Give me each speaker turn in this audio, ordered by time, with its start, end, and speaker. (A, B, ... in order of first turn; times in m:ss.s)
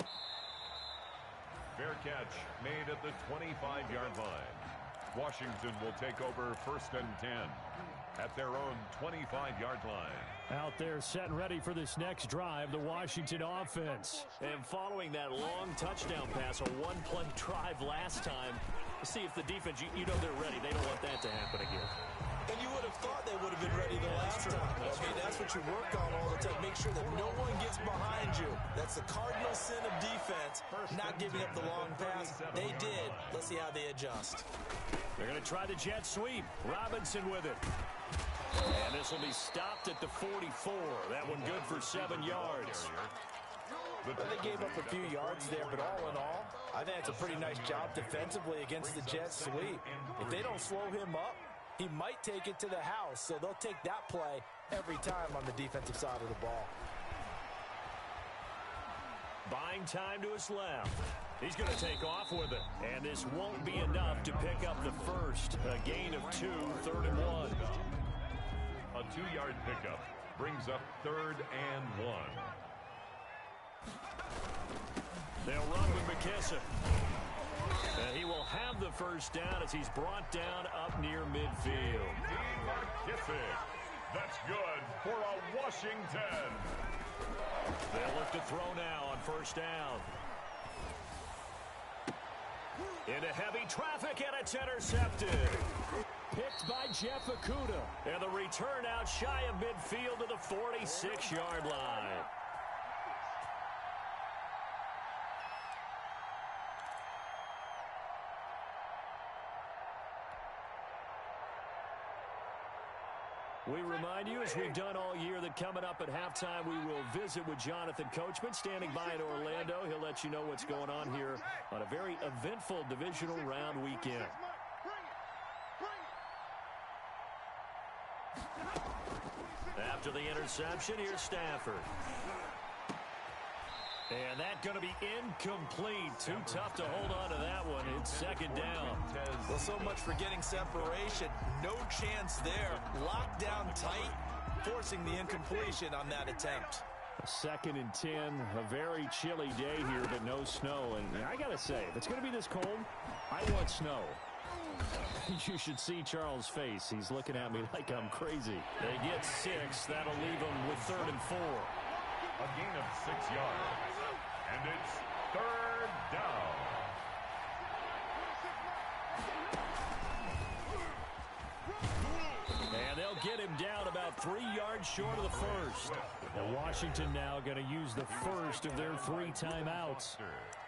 0:01.8-0:10.4 A
0:10.5-0:21.9 B
0:22.5-0:34.5 C
0:23.7-0:25.5 B
0:24.8-0:28.6 A
0:30.7-0:33.4 A
0:35.2-0:37.6 B
0:38.7-0:42.9 B
0:41.2-0:43.1 A
0:44.0-0:50.7 A
0:44.2-0:56.7 C
0:59.5-1:07.6 B
1:03.5-1:08.0 A
1:08.9-1:12.6 A
1:15.4-1:16.7 B
1:18.0-1:22.2 B
1:21.7-1:26.7 A
1:27.9-1:30.1 B
1:33.1-1:35.7 B
1:36.3-1:42.3 B
1:53.7-2:04.4 B
2:09.8-2:11.9 B
2:14.1-2:19.1 B
2:16.1-2:21.5 A
2:19.4-2:26.9 C
2:22.4-2:24.3 A
2:27.2-2:34.2 B
2:35.0-2:41.7 B
2:37.3-2:38.2 A
2:39.3-2:41.2 A
2:42.4-2:47.0 A
2:52.7-3:00.2 B
2:55.0-2:57.2 A
2:58.1-3:00.6 A